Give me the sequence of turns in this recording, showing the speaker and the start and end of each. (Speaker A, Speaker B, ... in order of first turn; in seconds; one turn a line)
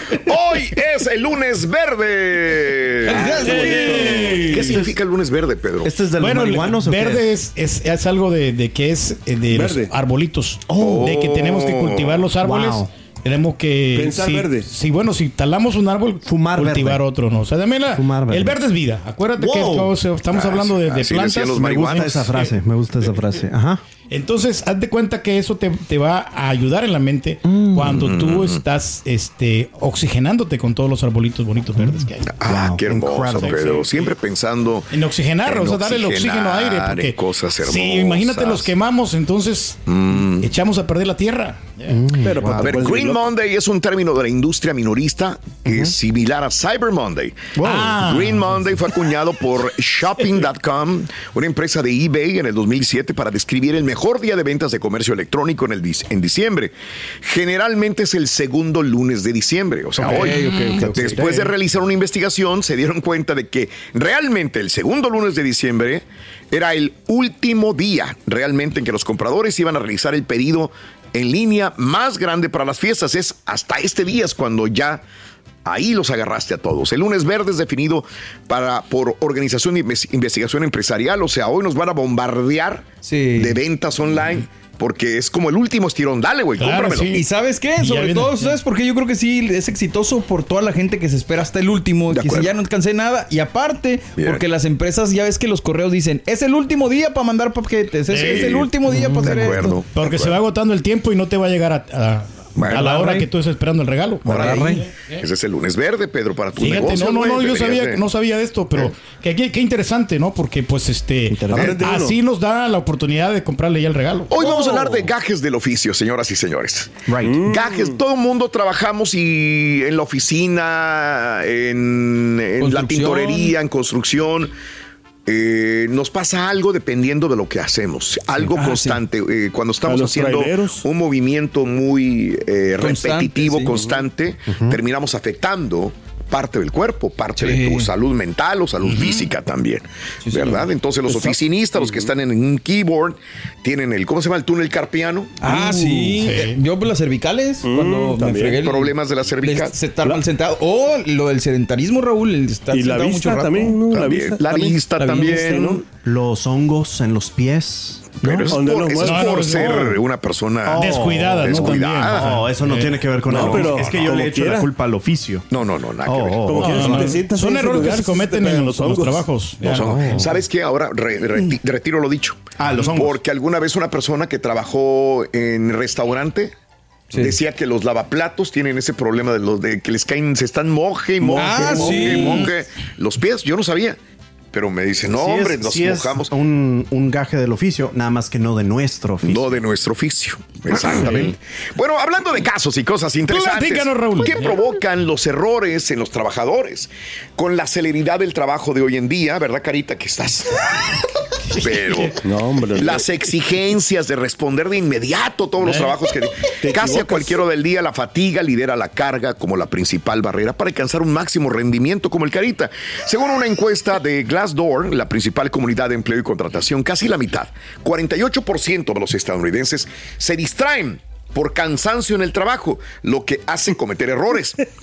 Speaker A: 0.1-5.9
Speaker B: 3.0-4.8
Speaker C: 3.1-4.7
Speaker D: 3.6-4.5
Speaker E: 5.8-7.3
Speaker D: 6.2-22.5
Speaker C: 9.5-9.9
Speaker E: 10.7-11.2
Speaker A: 10.7-12.3
Speaker E: 12.4-12.9
Speaker C: 13.9-14.7
Speaker E: 16.2-17.0
Speaker E: 17.9-18.6
Speaker E: 19.4-19.9
Speaker A: 20.3-22.4
Speaker E: 21.5-23.8
Speaker D: 24.1-32.3
Speaker E: 27.4-28.1
Speaker A: 27.9-28.6
Speaker E: 31.8-33.8
Speaker A: 32.4-34.9
Speaker D: 33.4-33.9
Speaker D: 34.9-39.8
Speaker A: 35.4-38.7
Speaker A: 39.9-40.5
Speaker D: 40.4-42.0
Speaker E: 41.9-42.8
Speaker C: 42.2-43.2
Speaker A: 42.5-75.0
Speaker E: 47.6-48.0
Speaker D: 47.6-48.5
Speaker E: 60.0-61.5
Speaker B: 60.0-61.2
Speaker A: 75.7-87.1
Speaker B: 83.0-83.6
Speaker D: 86.6-87.2
Speaker B: 87.1-99.8
Speaker D: 87.8-88.6
Speaker A: 92.1-92.5
Speaker A: 94.2-94.4
Speaker D: 98.1-98.5
Speaker A: 98.1-100.4
Speaker E: 99.0-99.5
Speaker D: 99.9-105.2
Speaker A: 102.6-103.3
Speaker E: 104.2-104.8
Speaker A: 104.3-108.0
Speaker D: 106.6-114.4
Speaker E: 111.3-111.8
Speaker C: 111.5-112.2
Speaker A: 114.3-124.5
Speaker C: 114.4-115.0
Speaker E: 117.1-117.4
Speaker C: 117.2-118.0
Speaker B: 122.6-123.5
Speaker A: 125.3-145.4
Speaker B: 128.5-129.0
Speaker C: 129.8-130.8
Speaker B: 132.8-133.8
Speaker E: 134.5-134.8
Speaker B: 137.4-137.9
Speaker D: 138.8-139.3
Speaker B: 140.2-140.7
Speaker B: 145.4-153.8
Speaker C: 145.5-146.2
Speaker D: 146.2-146.6
Speaker C: 147.6-148.6
Speaker A: 148.6-149.7
Speaker C: 152.7-155.8
Speaker A: 153.9-155.8
Speaker E: 156.0-158.6
Speaker A: 158.2-162.4
Speaker C: 158.2-159.7
Speaker D: 159.0-159.9
Speaker E: 160.7-165.5
Speaker D: 160.7-163.2
Speaker C: 163.3-164.7
Speaker A: 163.3-164.1
Speaker A: 165.5-166.9
Speaker E: 166.1-167.1
Speaker C: 166.4-169.3
Speaker D: 166.6-170.0
Speaker A: 169.7-176.5
Speaker E: 169.7-170.4
Speaker E: 172.6-173.2
Speaker A: 177.2-184.0
Speaker C: 181.2-182.4
Speaker B: 181.3-182.5
Speaker A: 184.5-186.3
Speaker E: 185.1-189.5
Speaker A: 189.2-200.5
Speaker E: 190.7-191.3
Speaker D: 190.9-191.3
Speaker D: 193.3-194.5
Speaker D: 201.6-202.1
Speaker A: 201.6-202.2
Speaker C: 202.2-203.1
Speaker A: 202.8-224.6
Speaker C: 206.6-207.4